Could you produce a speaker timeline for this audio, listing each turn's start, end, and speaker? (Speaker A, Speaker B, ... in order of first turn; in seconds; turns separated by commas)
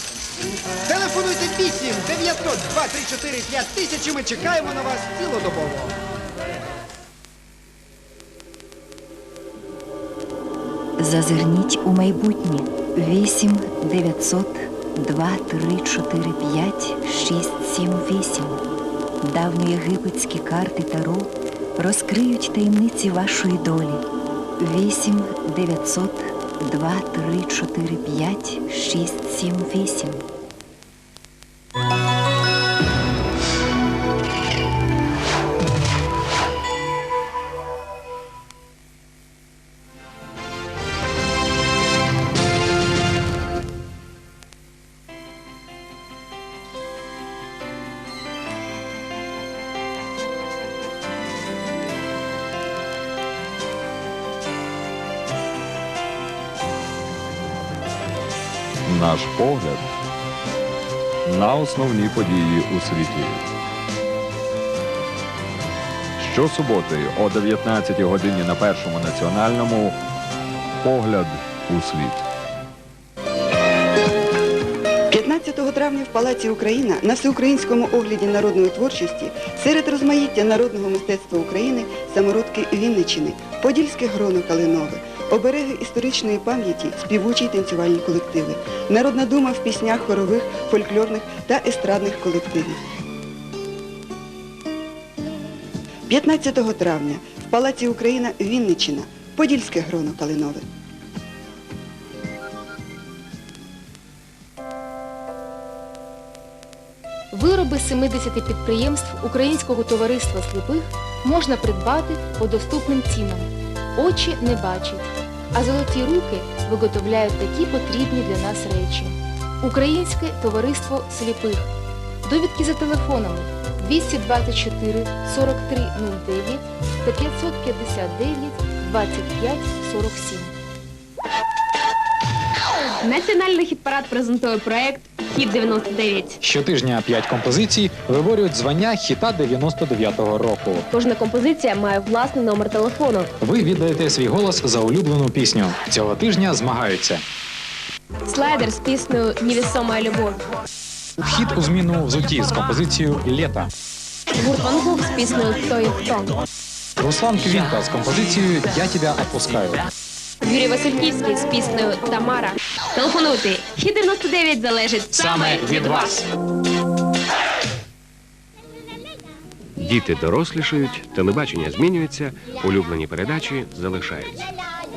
Speaker A: 0.8-6.0, Speaker B: 11.0-18.6, Speaker B: 19.2-24.0, Speaker B: 24.6-30.2, Speaker C: 58.9-59.9, Speaker C: 61.3-63.5, Speaker C: 66.2-70.0, Speaker C: 70.8-72.2, Speaker D: 75.1-92.8, Speaker D: 96.1-100.6, Speaker E: 107.3-121.7, Speaker E: 122.2-130.5, Speaker F: 133.0-136.4, Speaker G: 136.4-140.9, Speaker F: 140.9-143.3, Speaker G: 143.4-147.2, Speaker F: 148.3-150.4, Speaker G: 151.2-153.7, Speaker F: 154.4-156.4, Speaker G: 157.0-159.8, Speaker F: 160.4-166.2, Speaker G: 165.1-166.3, Speaker H: 169.8-174.5